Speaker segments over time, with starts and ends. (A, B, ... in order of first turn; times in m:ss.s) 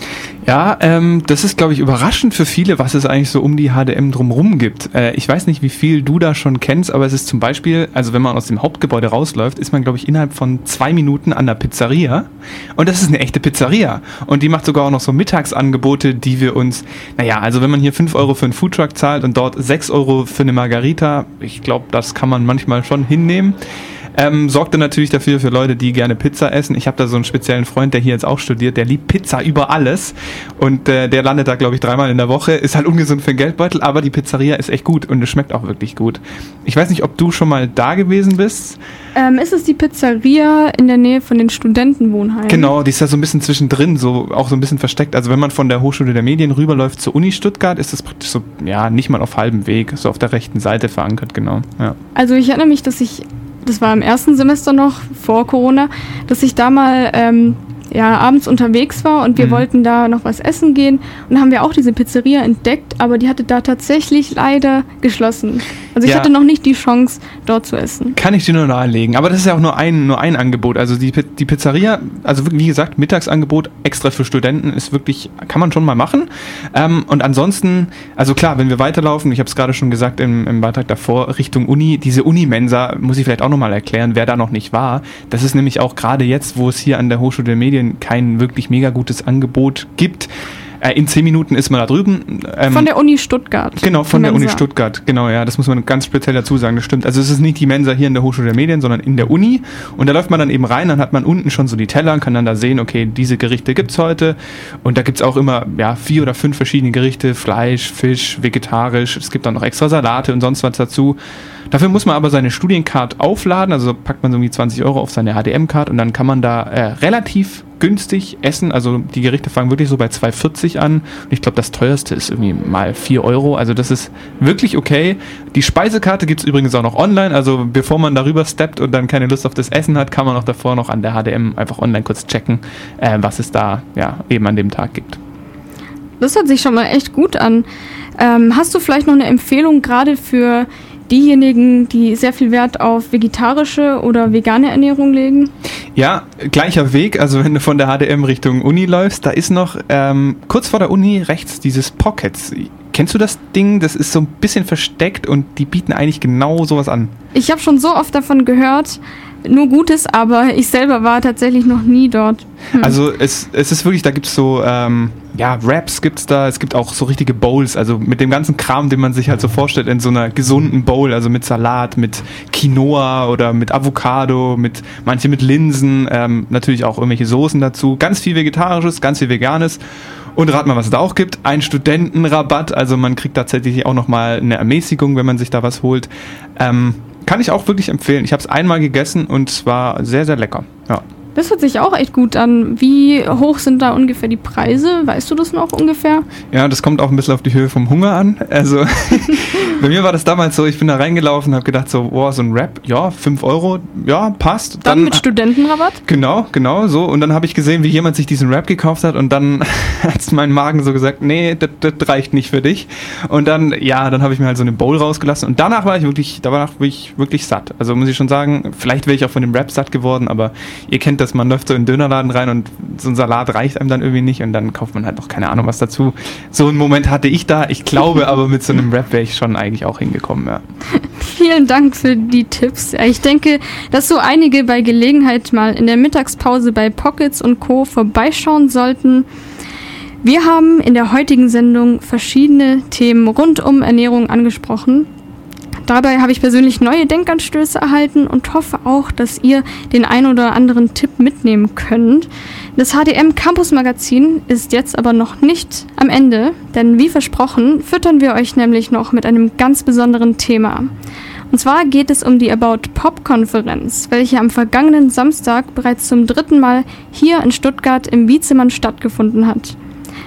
0:00.5-0:23.6 A
0:24.2-0:38.8 A
0:39.2-0:42.7 B
0:42.5-0:52.0 A
0:52.2-1:08.2 B
0:59.4-0:59.7 A
1:06.0-1:06.3 A
1:08.2-1:30.3 A
1:30.8-1:32.9 A
1:32.7-1:34.6 B
1:33.8-1:51.2 A
1:51.7-2:15.2 A
2:16.2-2:17.7 B
2:18.2-2:25.5 B
2:26.0-2:37.1 A
2:37.4-2:43.0 B
2:42.8-2:59.8 A
3:00.4-3:11.0 A
3:11.4-3:16.3 B
3:16.5-3:25.2 A
3:24.8-3:26.0 B
3:26.1-3:50.6 A
3:51.0-3:59.3 B
4:00.2-4:05.1 B
4:05.9-4:20.9 B
4:21.5-4:29.8 B